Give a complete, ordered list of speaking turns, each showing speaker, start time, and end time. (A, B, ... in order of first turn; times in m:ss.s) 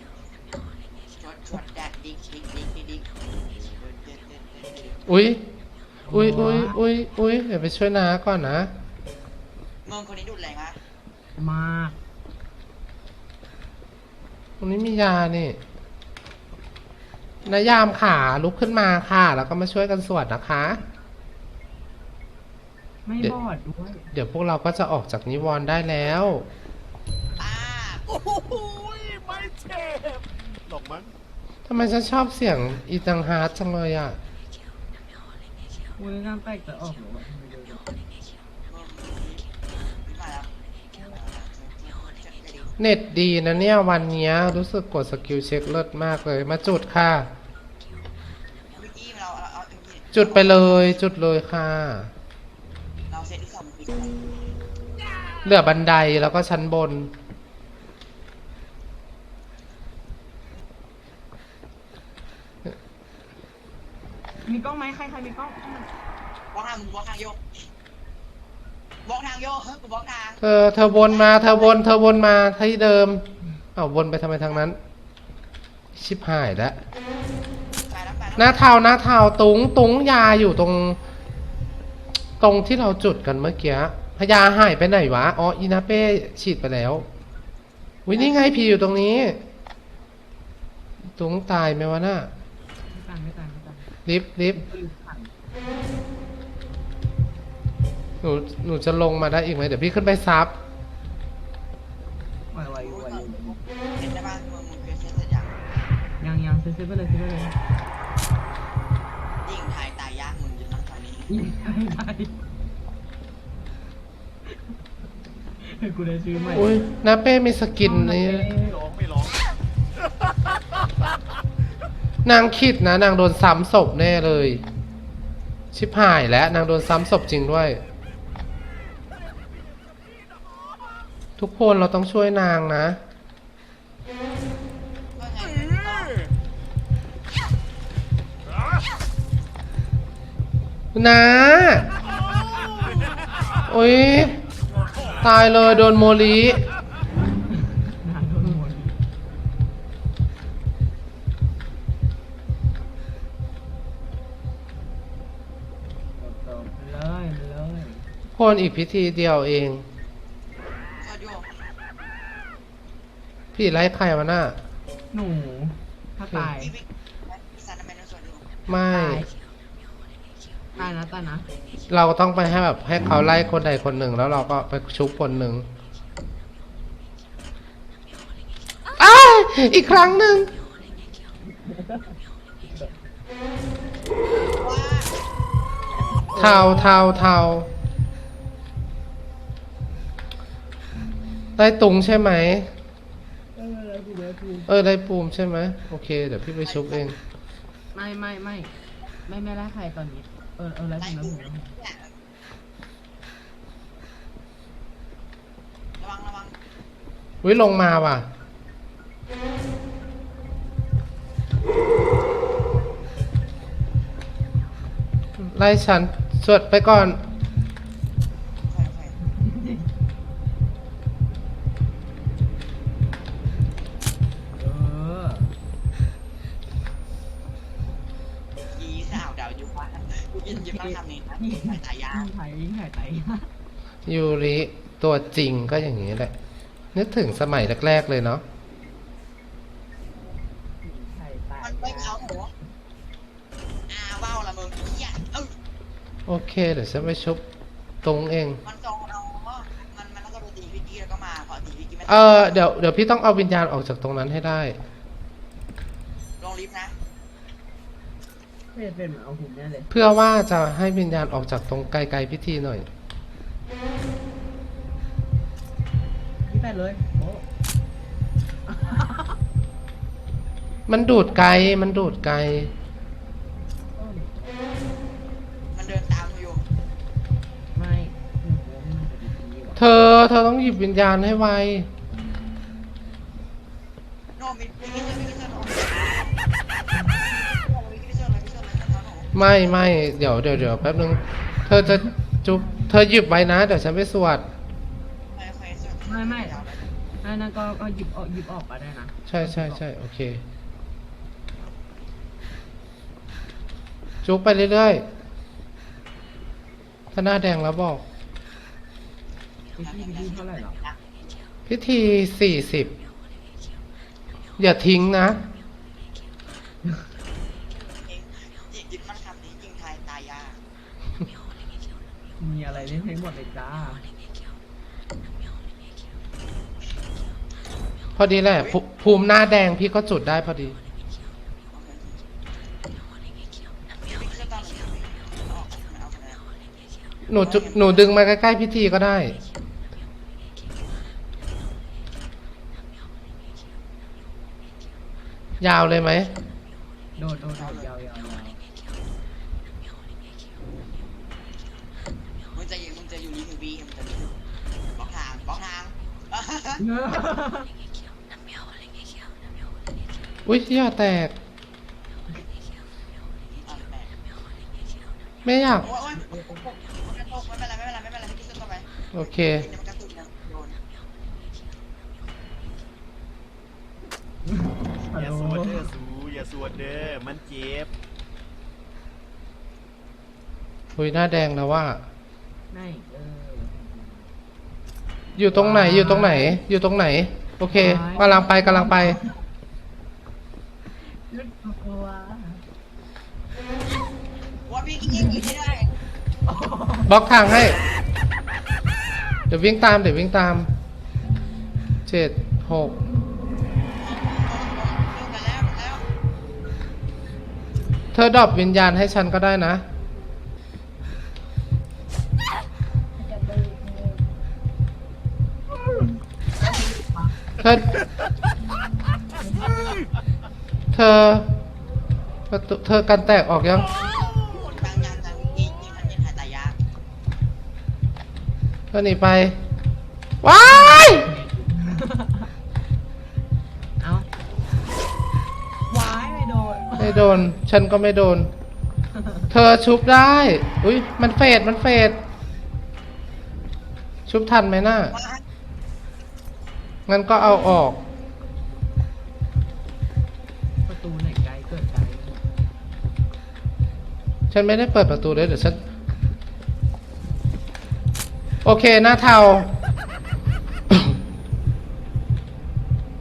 0:01.2-0:05.1 A
0:05.1-0:05.4 B
0:06.0-0:06.8 C
0:06.1-0:08.7 B
0:09.8-0:10.8 A
0:11.4-0:12.0 C
0:14.6-0:15.6 B
0:17.4-0:17.7 A
0:17.4-0:20.8 B
0:23.0-0:24.1 C
0:24.1-0:26.5 B
0:27.4-0:28.0 A
0:28.1-0:31.1 D
0:31.6-0:34.2 B
0:36.0-0:37.8 C
0:38.7-0:39.4 A
0:40.0-0:42.8 A
0:42.8-0:47.3 B
0:48.7-0:51.1 A
0:50.1-0:52.1 B
0:53.1-0:54.4 A
0:55.4-0:57.1 B
1:04.4-1:05.9 C
1:06.5-1:07.4 A
1:09.0-1:10.4 A
1:10.4-1:13.2 B
1:10.9-1:11.8 A
1:13.8-1:14.8 B
1:15.9-1:16.8 B
1:17.8-1:18.7 A
1:18.4-1:21.0 B
1:22.4-1:27.0 B
1:28.0-1:29.4 B
1:28.1-1:28.4 A
1:31.2-1:32.3 B
1:32.9-1:33.9 C
1:34.0-1:34.6 B
1:34.5-1:35.3 C
1:38.2-1:40.5 B
1:42.5-1:43.6 C
1:42.6-1:45.5 A
1:46.2-1:47.6 C
1:49.4-1:51.3 A
1:51.3-1:52.3 C
1:54.5-1:54.7 C
1:55.6-1:56.8 C
1:56.5-1:58.5 B
1:57.8-1:58.8 C
1:58.8-1:59.3 D
2:02.2-2:04.6 B
2:05.7-2:07.8 B
2:11.4-2:13.0 B
2:15.2-2:16.2 A
2:20.9-2:21.8 B
2:23.7-2:24.4 B
2:25.2-2:26.6 B
2:27.5-2:29.0 C
2:36.2-2:38.0 C
2:38.3-2:39.8 B
2:41.0-2:41.5 A
2:43.5-2:44.6 B
2:45.1-2:46.7 C
2:46.6-2:48.4 A
2:48.7-2:49.2 B
2:48.9-2:49.3 C
2:50.8-2:51.5 C
2:51.9-2:55.7 B
2:59.0-3:00.5 B
3:01.5-3:02.2 C
3:02.7-3:03.0 C
3:04.6-3:05.1 A
3:06.1-3:06.8 C
3:06.3-3:07.7 B
3:11.6-3:12.7 B
3:13.6-3:14.7 C
3:14.7-3:17.2 B
3:16.6-3:17.1 A
3:17.9-3:21.7 C
3:21.0-3:22.1 A
3:26.0-3:26.6 A
3:27.4-3:28.3 B
3:35.4-3:37.2 B
3:38.6-3:39.2 A
3:39.2-3:39.9 C
3:44.6-3:45.5 C
3:48.7-3:52.3 A
3:50.6-3:53.5 C
3:54.0-3:56.3 B
3:56.9-3:58.4 B
4:00.8-4:02.2 C
4:01.6-4:02.5 A
4:03.9-4:05.5 A
4:06.3-4:07.4 B
4:08.0-4:08.6 B
4:08.6-4:12.6 A
4:12.1-4:14.8 B
4:16.4-4:16.9 A
4:18.7-4:19.9 C
4:19.9-4:22.8 B
4:26.4-4:27.4 C
4:28.6-4:29.4 C
4:30.9-4:32.7 B
4:33.9-4:34.6 C
4:35.7-4:36.6 A
4:37.7-4:39.8 C
4:39.8-4:41.9 B
4:44.4-4:46.4 A
4:46.9-4:47.2 C
4:47.2-4:49.3 A
4:49.3-4:54.4 B
4:55.3-4:56.9 A
4:56.0-4:56.6 C
4:57.2-4:59.8 C
4:59.3-5:00.4 B
5:04.2-5:05.0 B
5:07.1-5:08.0 B
5:09.8-5:11.1 A
5:09.8-5:10.8 C
5:11.7-5:12.9 B
5:14.6-5:15.4 B
5:17.7-5:20.6 A
5:22.4-5:24.0 C
5:28.2-5:30.8 B
5:28.5-5:28.8 A
5:31.7-5:32.2 A
5:34.0-5:36.4 A
5:37.3-5:39.4 B
5:37.4-5:38.2 A
5:45.6-5:46.3 B
5:47.2-5:48.6 C
5:47.5-5:47.9 A
5:52.5-5:54.4 A
5:54.9-5:56.8 A
5:56.8-5:57.7 C
6:00.4-6:01.3 B
6:03.6-6:04.1 A
6:05.4-6:05.9 B
6:05.8-6:10.8 A
6:09.1-6:09.6 B
6:14.4-6:15.9 C
6:15.2-6:17.9 D
6:21.0-6:22.0 B
6:22.7-6:24.3 C
6:25.3-6:29.2 B
6:25.5-6:26.6 C
6:27.7-6:29.3 C
6:31.0-6:32.6 C
6:34.6-6:35.9 A
6:36.4-6:37.1 C
6:37.0-6:37.8 B
6:39.5-6:40.7 B
6:42.0-6:43.0 B
6:44.0-6:46.0 A
6:48.1-6:49.8 B
6:53.3-6:54.1 C
6:56.6-6:57.3 C
6:57.6-6:57.9 B
6:59.4-6:59.8 C
7:00.9-7:01.5 B
7:02.5-7:03.9 B
7:04.5-7:06.8 A
7:08.9-7:09.6 B
7:10.4-7:11.3 B
7:10.6-7:12.5 C
7:14.0-7:14.3 C
7:15.9-7:17.3 C
7:17.0-7:18.5 B
7:19.1-7:19.5 C
7:19.5-7:22.2 B
7:24.3-7:25.1 B
7:25.1-7:25.4 A
7:27.1-7:28.0 B
7:30.8-7:32.4 C
7:34.5-7:35.8 B
7:38.6-7:39.7 B